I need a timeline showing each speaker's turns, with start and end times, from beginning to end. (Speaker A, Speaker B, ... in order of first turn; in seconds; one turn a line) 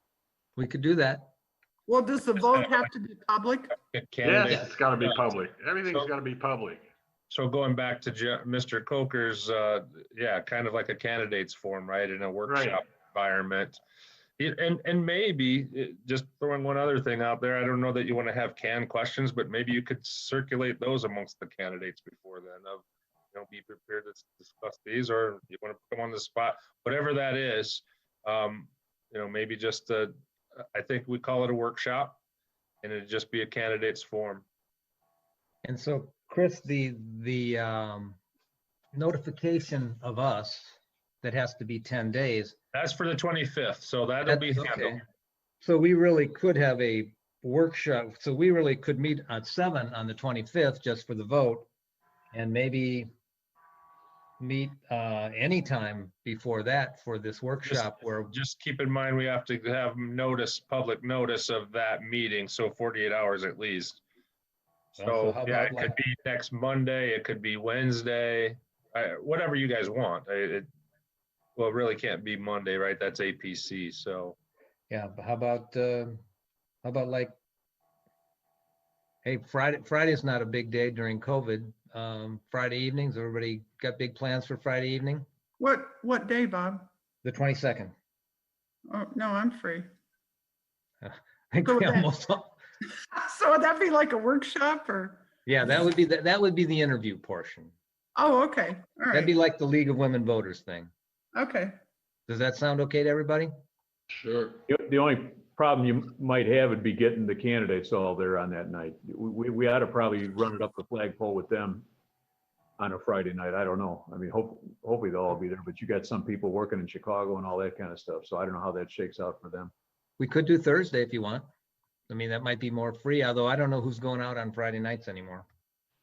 Speaker A: 0.6-1.3
Speaker B: 1.9-3.7
Speaker C: 3.9-5.3
Speaker D: 4.2-6.9
Speaker C: 5.9-6.1
Speaker C: 7.3-13.8
Speaker D: 12.5-12.8
Speaker C: 14.4-32.2
Speaker C: 32.8-34.5
Speaker A: 35.6-38.2
Speaker A: 38.9-42.6
Speaker C: 42.7-45.0
Speaker A: 44.3-45.0
Speaker A: 45.6-51.7
Speaker A: 52.3-53.1
Speaker A: 54.4-58.3
Speaker C: 57.6-64.0
Speaker C: 65.0-70.7
Speaker A: 65.0-66.0
Speaker C: 71.6-74.4
Speaker A: 74.9-76.2
Speaker A: 76.8-77.3
Speaker A: 79.2-85.3
Speaker B: 85.6-86.9
Speaker A: 87.2-87.9
Speaker B: 88.9-89.9
Speaker A: 91.0-92.6
Speaker B: 91.6-92.1
Speaker B: 93.1-95.2
Speaker A: 95.5-97.7
Speaker B: 98.2-99.3
Speaker A: 99.1-100.9
Speaker B: 101.3-101.7
Speaker A: 102.3-103.5
Speaker D: 104.1-104.6
Speaker E: 104.7-111.8
Speaker E: 112.8-119.7
Speaker A: 120.2-121.5
Speaker A: 122.1-125.5